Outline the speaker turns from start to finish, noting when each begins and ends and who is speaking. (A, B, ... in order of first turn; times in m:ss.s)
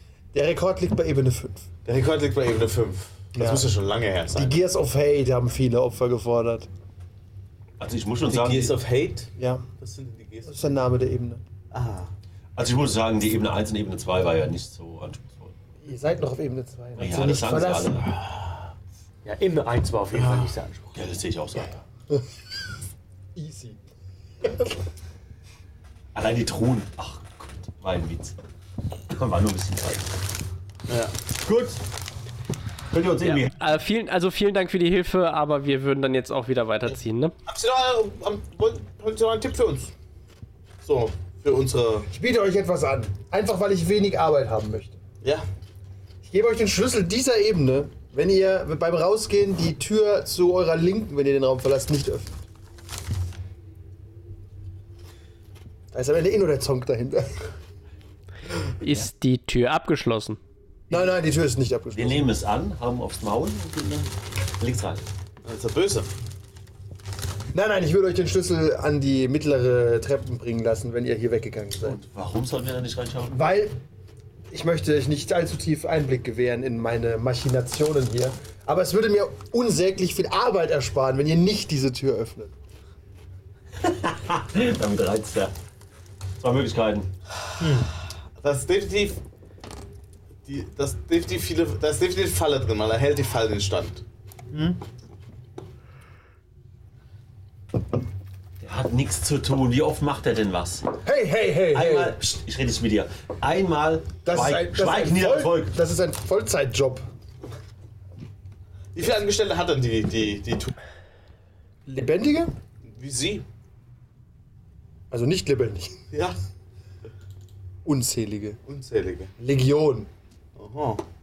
0:00.3-0:01.6 A
0:01.8-0:04.6 B
0:03.4-0:03.7 A
0:04.3-0:06.7 A
0:07.8-0:08.7 C
0:08.3-0:10.8 B
0:09.4-0:09.6 A
0:10.4-0:11.4 A
0:11.7-0:12.1 B
0:12.6-0:15.5 C
0:15.8-0:18.1 A
0:17.0-0:18.1 C
0:19.2-0:21.0 D
0:20.1-0:20.5 B
0:20.9-0:21.8 C
0:23.4-0:23.8 A
0:26.1-0:28.4 C
0:29.1-0:30.0 C
0:30.9-0:31.1 B
0:31.4-0:31.8 C
0:32.9-0:33.6 C
0:33.2-0:37.3 E
0:37.5-0:39.9 B
0:40.8-0:42.1 B
0:42.1-0:45.0 A
0:46.2-0:52.3 A
0:55.9-0:57.4 A
0:58.8-1:00.4 E
1:00.9-1:02.3 A
1:01.9-1:05.0 C
1:05.4-1:06.1 B
1:07.5-1:12.0 A
1:11.8-1:13.5 C
1:13.3-1:13.8 A
1:14.5-1:22.5 A
1:23.8-1:25.5 C
1:26.4-1:27.1 C
1:27.6-1:27.9 D
1:28.4-1:29.2 B
1:30.4-1:34.0 B
1:34.5-1:34.8 D
1:38.6-1:40.9 C
1:41.0-1:42.2 A
1:41.7-1:45.8 C
1:44.2-1:47.0 A
1:48.9-1:50.7 B
1:51.8-1:52.5 A
1:52.9-1:53.4 B
1:55.1-1:56.0 A
1:56.1-1:56.4 B
1:57.8-1:58.6 A
1:58.6-1:59.3 B
1:59.4-2:00.1 A
2:00.6-2:01.0 B